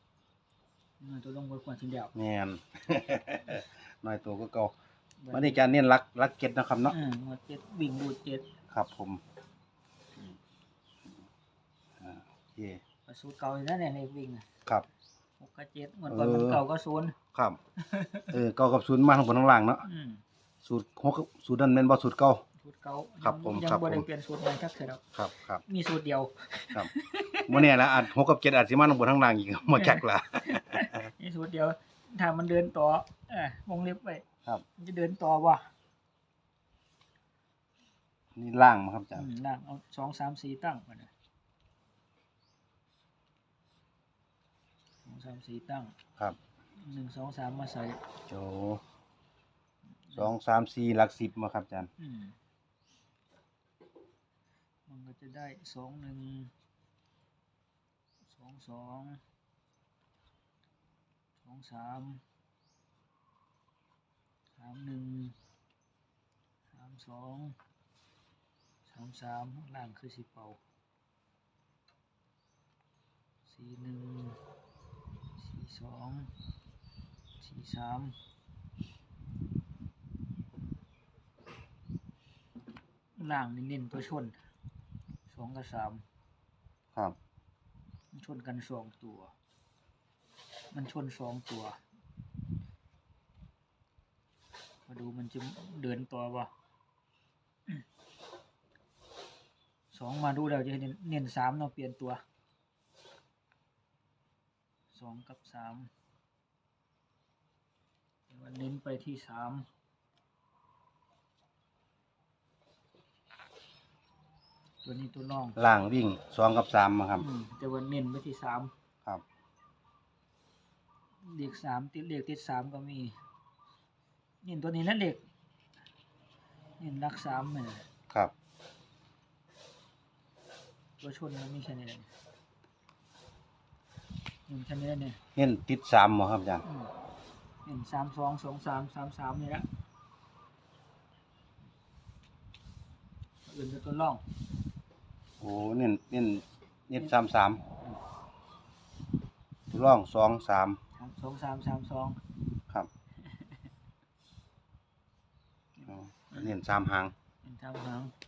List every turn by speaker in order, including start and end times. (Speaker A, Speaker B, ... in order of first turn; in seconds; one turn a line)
Speaker A: 1.0-2.1
Speaker B: 2.1-4.7
Speaker A: 5.2-5.6
Speaker B: 5.3-7.0
Speaker A: 6.9-8.5
Speaker B: 8.7-9.2
Speaker B: 12.0-12.8
Speaker A: 13.1-14.5
Speaker A: 15.4-17.2
Speaker B: 16.1-16.6
Speaker B: 17.3-17.6
Speaker A: 17.8-18.4
Speaker B: 18.3-19.9
Speaker A: 19.8-20.2
Speaker B: 20.6-22.4
Speaker A: 22.6-25.0
Speaker B: 23.2-24.1
Speaker B: 25.1-25.6
Speaker A: 25.6-27.7
Speaker B: 27.4-31.0
Speaker A: 29.7-34.2
Speaker A: 34.8-35.7
Speaker B: 38.4-39.3
Speaker A: 39.1-41.1
Speaker A: 45.0-45.9
Speaker A: 46.8-48.0
Speaker B: 48.3-48.8
Speaker B: 50.1-51.9
Speaker A: 52.0-52.4
Speaker A: 54.9-56.5
Speaker A: 58.3-59.2
Speaker A: 61.4-62.2
Speaker A: 64.6-65.4
Speaker A: 66.7-67.6
Speaker A: 68.9-70.6
Speaker A: 73.5-74.4
Speaker A: 75.4-76.3
Speaker A: 77.4-78.2
Speaker A: 83.2-84.4
Speaker A: 85.3-86.0
Speaker A: 88.1-89.3
Speaker A: 90.7-91.8
Speaker A: 94.9-96.5
Speaker A: 99.9-102.2
Speaker A: 104.9-105.9
Speaker A: 108.3-109.7
Speaker A: 114.8-115.6
Speaker B: 115.6-117.3
Speaker A: 117.2-118.7
Speaker A: 121.2-123.2
Speaker A: 124.4-125.2
Speaker A: 126.8-127.9
Speaker A: 131.0-132.1
Speaker A: 134.5-135.2
Speaker B: 135.4-136.6
Speaker A: 136.7-136.9
Speaker A: 137.7-139.7
Speaker A: 143.4-144.2
Speaker B: 145.4-147.6
Speaker B: 149.7-150.8
Speaker A: 151.0-152.2
Speaker A: 153.2-153.6
Speaker A: 155.8-156.5
Speaker B: 155.9-157.1
Speaker A: 157.4-158.1